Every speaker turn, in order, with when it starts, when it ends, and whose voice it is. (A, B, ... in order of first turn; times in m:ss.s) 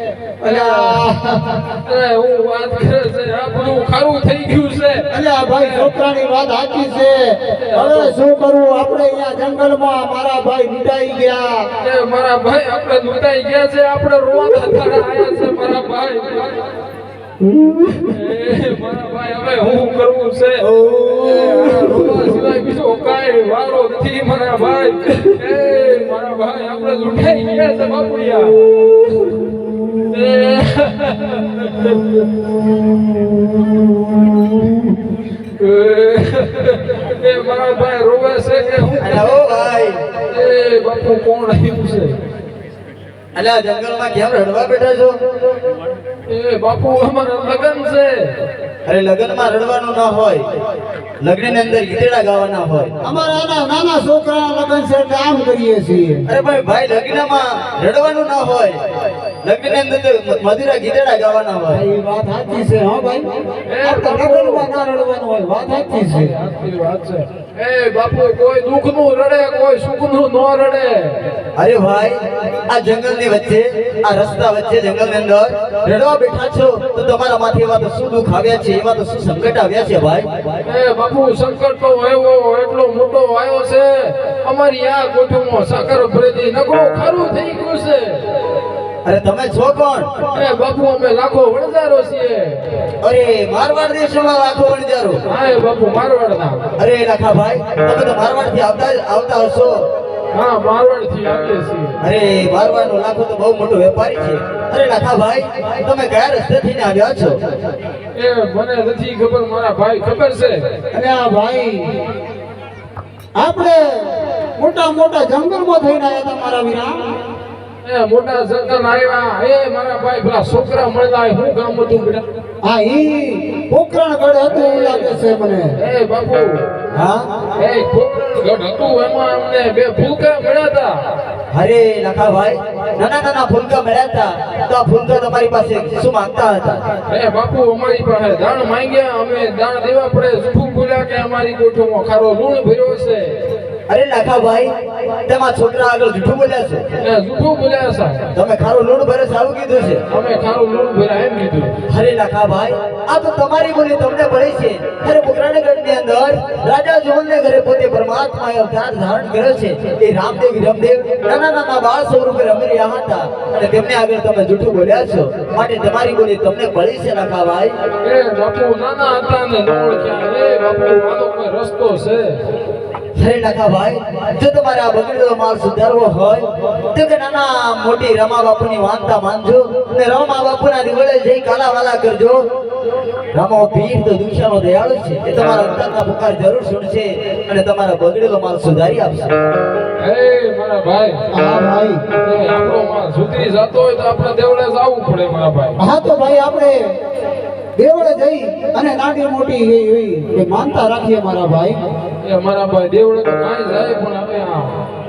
0:00.4-0:01.6 A
0:00.4-0:01.0 B
0:01.8-0:05.9 B
0:05.1-0:11.7 A
0:07.6-0:08.1 B
0:11.8-0:16.5 B
0:17.4-0:18.2 A
0:18.1-0:28.6 B
0:20.6-0:22.3 A
0:30.1-0:32.2 B
0:35.6-0:39.4 B
0:38.8-0:40.0 C
0:40.3-0:42.2 B
0:43.3-0:45.2 C
0:46.3-0:48.3 B
0:48.8-0:50.4 C
0:51.2-0:53.0 C
0:53.0-0:56.2 A
0:56.3-0:58.8 C
0:59.4-1:01.8 C
1:01.7-1:03.3 A
1:03.7-1:04.6 B
1:03.8-1:06.3 A
1:06.2-1:11.2 B
1:11.6-1:20.3 C
1:20.6-1:28.2 B
1:29.0-1:30.1 C
1:30.3-1:32.6 B
1:33.0-1:35.2 C
1:35.3-1:36.7 B
1:36.8-1:39.8 C
1:40.3-1:42.0 B
1:42.0-1:47.4 C
1:48.1-1:50.6 B
1:50.9-1:51.8 A
1:53.4-1:57.0 A
1:57.8-2:02.2 B
2:02.6-2:05.7 A
2:04.7-2:05.1 B
2:05.8-2:06.6 B
2:06.9-2:07.3 C
2:07.6-2:11.0 B
2:11.5-2:16.8 C
2:17.1-2:23.3 B
2:23.9-2:26.9 C
2:27.0-2:28.3 B
2:28.3-2:30.0 C
2:30.1-2:31.8 B
2:31.9-2:47.7 C
2:48.0-2:52.4 B
2:53.2-3:02.4 C
3:03.3-3:09.4 C
3:10.0-3:11.2 B
3:11.3-3:12.0 A
3:12.2-3:15.8 B
3:15.8-3:16.8 A
3:17.8-3:21.8 A
3:22.2-3:24.8 B